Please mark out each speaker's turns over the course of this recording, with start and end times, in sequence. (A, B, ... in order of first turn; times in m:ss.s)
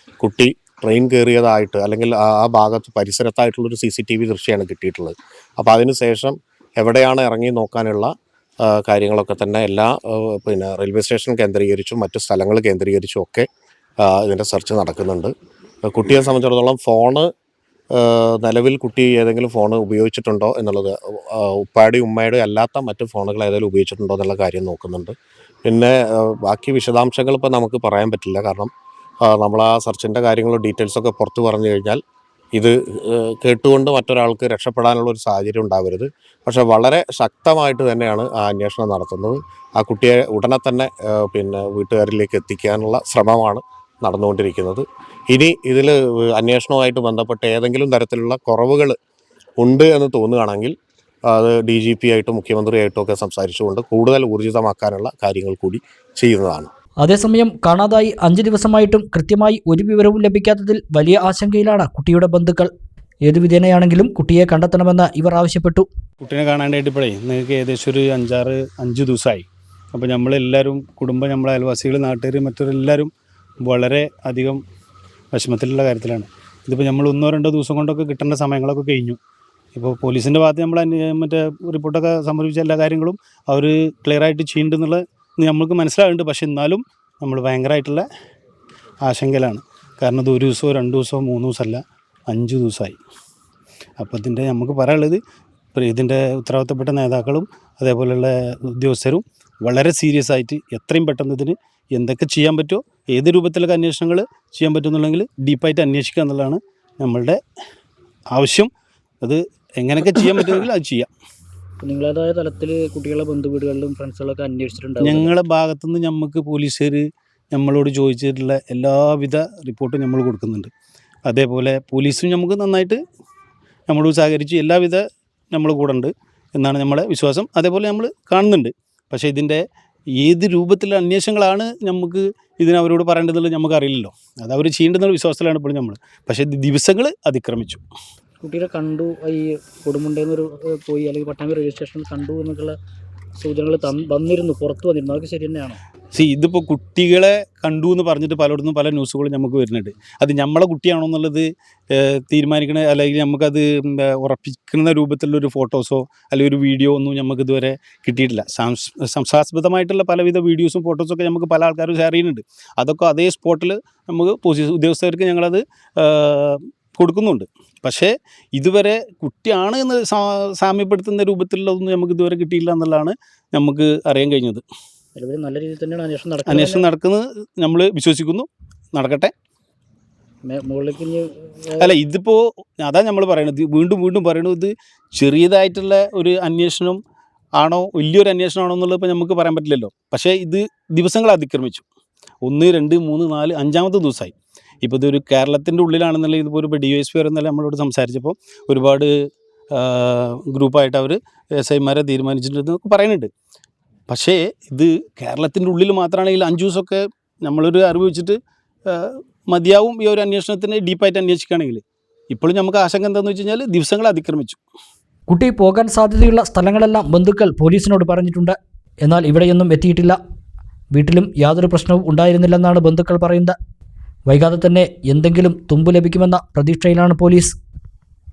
0:00.2-0:08.1 A
0:08.6-0:13.5 A
0:14.0-0:15.3 A
0:15.9-0:17.3 A
0:17.9-0:25.1 A
0:25.6-0:28.7 A
0:29.2-0:32.0 A
0:32.5-0:49.0 A
0:49.6-0:50.7 A
0:51.3-0:56.7 A
0:57.0-1:02.7 B
1:03.3-1:05.9 B
1:06.2-1:13.1 C
1:13.6-1:14.6 C
1:15.3-1:19.2 C
1:19.8-1:28.0 C
1:29.0-1:33.0 C
1:34.0-1:35.2 C
1:35.7-1:47.4 C
1:48.3-1:48.7 C
1:49.2-1:51.1 C
1:51.8-1:55.3 D
1:55.0-2:00.7 C
2:01.3-2:03.0 C
2:03.9-2:09.6 C
2:10.2-2:17.8 C
2:18.4-2:22.8 D
2:23.4-2:25.8 D
2:26.1-2:54.6 C
2:55.2-2:56.8 D
2:56.5-2:59.3 C
3:00.5-3:01.9 D
3:01.8-3:07.0 C
3:07.6-3:11.8 C
3:12.4-3:23.3 C
3:24.1-3:28.4 C
3:28.9-3:34.6 C
3:35.3-3:40.2 B
3:40.9-3:43.6 B
3:44.3-3:47.6 B